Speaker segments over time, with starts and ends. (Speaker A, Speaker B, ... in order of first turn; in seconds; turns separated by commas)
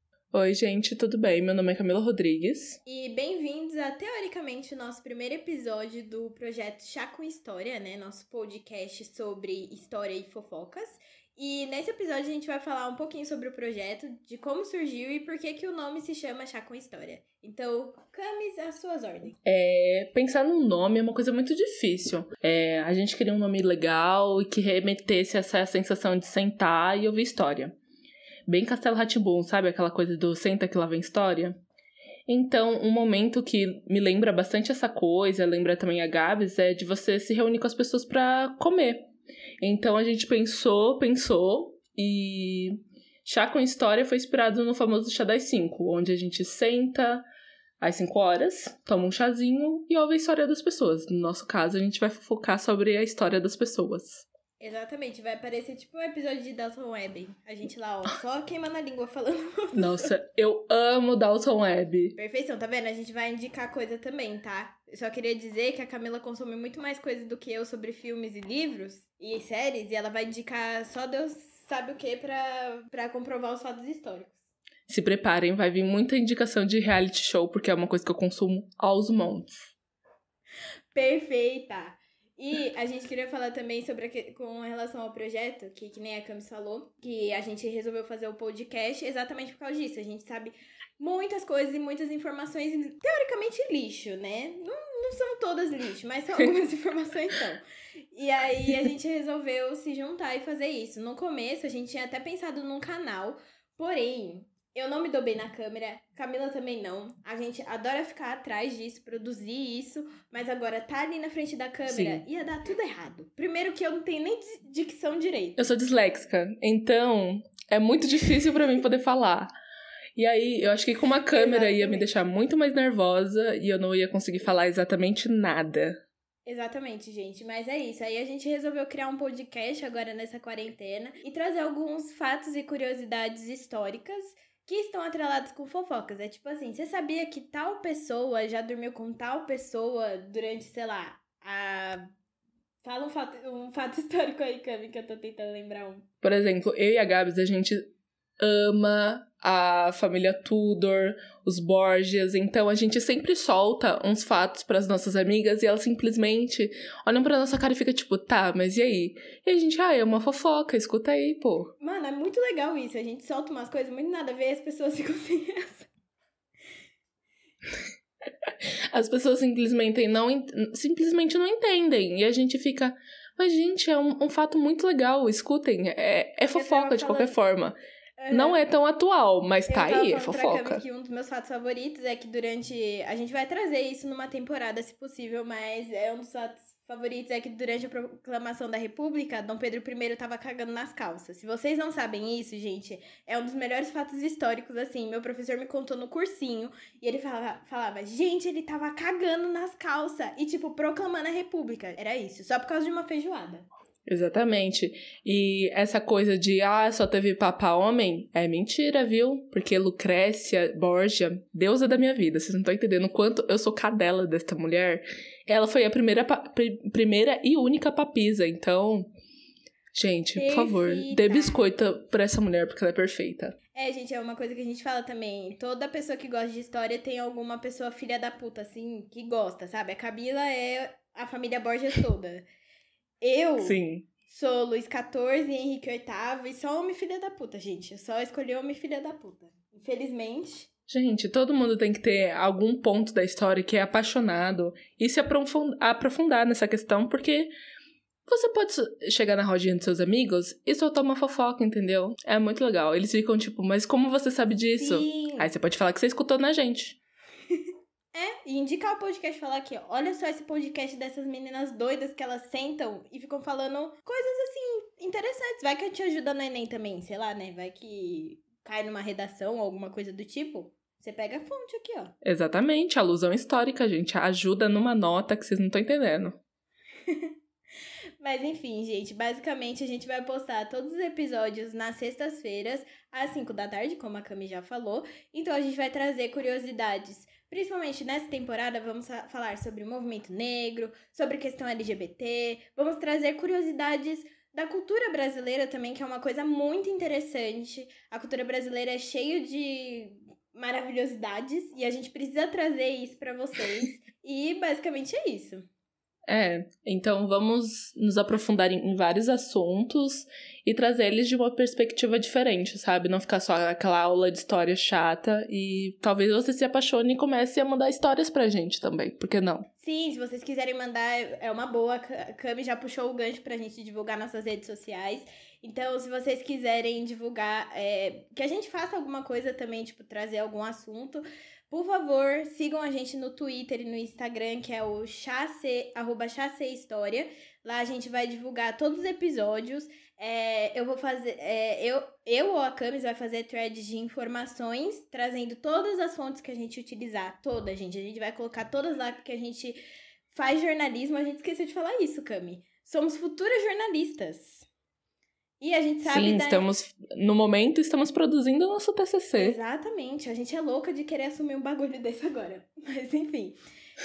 Speaker A: 0.3-2.8, Speaker B: 2.8-19.4, Speaker A: 19.4-27.7, Speaker A: 28.5-31.6, Speaker A: 32.3-39.0, Speaker A: 39.6-47.2, Speaker A: 47.8-54.2, Speaker B: 54.6-60.1, Speaker A: 59.7-62.1, Speaker B: 62.1-74.4, Speaker A: 74.9-79.7, Speaker B: 80.9-115.6, Speaker A: 111.9-112.2, Speaker A: 115.6-119.5, Speaker A: 120.2-125.9, Speaker B: 121.3-122.2, Speaker B: 126.5-142.1, Speaker B: 142.8-146.1, Speaker A: 146.2-147.8, Speaker A: 148.4-161.7, Speaker B: 161.8-165.9, Speaker A: 168.5-177.8, Speaker B: 176.5-177.4, Speaker B: 178.2-178.6, Speaker A: 178.3-180.8, Speaker B: 179.7-203.7, Speaker A: 204.1-219.1, Speaker A: 219.9-223.5, Speaker B: 220.3-221.6, Speaker B: 223.7-232.4, Speaker B: 233.2-240.7, Speaker A: 233.6-234.1, Speaker A: 240.9-247.5, Speaker A: 248.3-257.0, Speaker B: 254.7-255.5, Speaker B: 258.1-272.1, Speaker A: 272.2-276.4, Speaker B: 278.2-305.6, Speaker A: 306.3-319.6, Speaker B: 319.8-349.8, Speaker B: 350.3-354.6, Speaker B: 355.6-356.7, Speaker A: 356.1-359.6, Speaker B: 359.4-363.6